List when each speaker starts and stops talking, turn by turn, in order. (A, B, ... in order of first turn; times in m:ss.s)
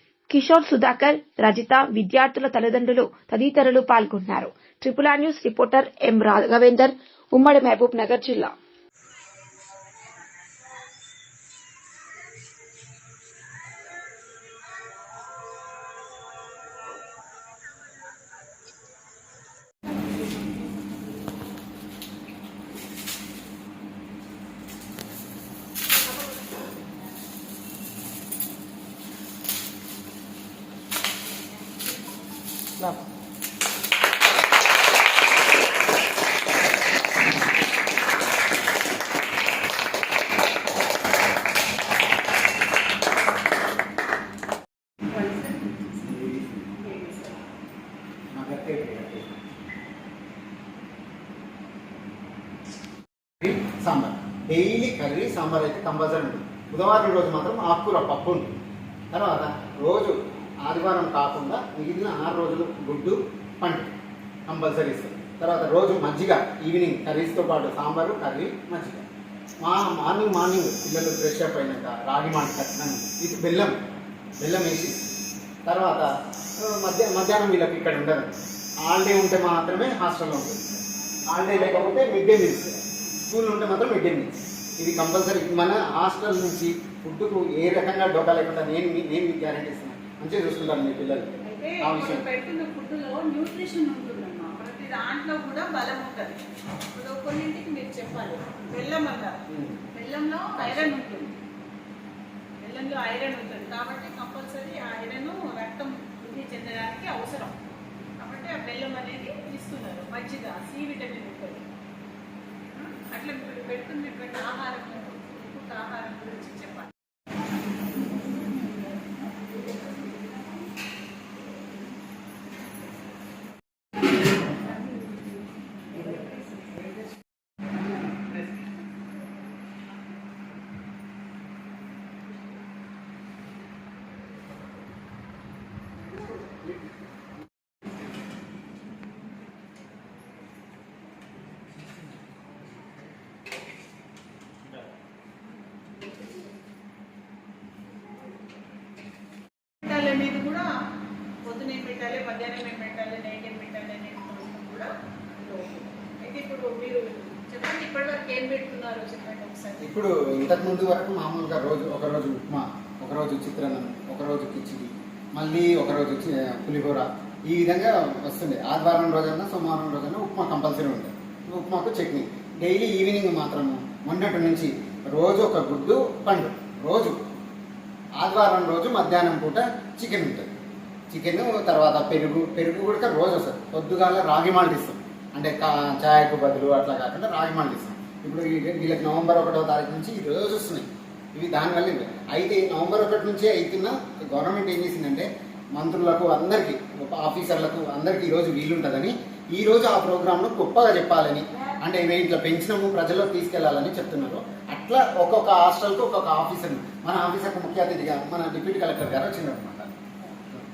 0:00.3-0:08.5 A
0:45.1-0:45.8 B
0:46.0-0:46.8 C
0:46.8-0:47.3 B
0:48.3-0:49.3 C
0:53.4-0:58.6 C
0:59.1-1:03.9 C
1:04.5-1:09.0 C
1:09.6-1:13.8 C
1:14.4-1:15.1 C
1:15.7-1:32.2 C
1:31.4-1:36.4 B
1:36.9-1:39.4 B
1:39.5-1:39.8 C
1:39.9-1:41.4 B
1:40.6-1:40.9 C
1:42.6-1:47.6 B
1:48.2-1:51.6 B
1:52.7-1:56.9 B
2:29.8-2:30.7 B
2:31.4-2:39.9 B
2:39.8-2:57.2 C
2:58.2-3:00.5 C
3:01.1-3:29.9 C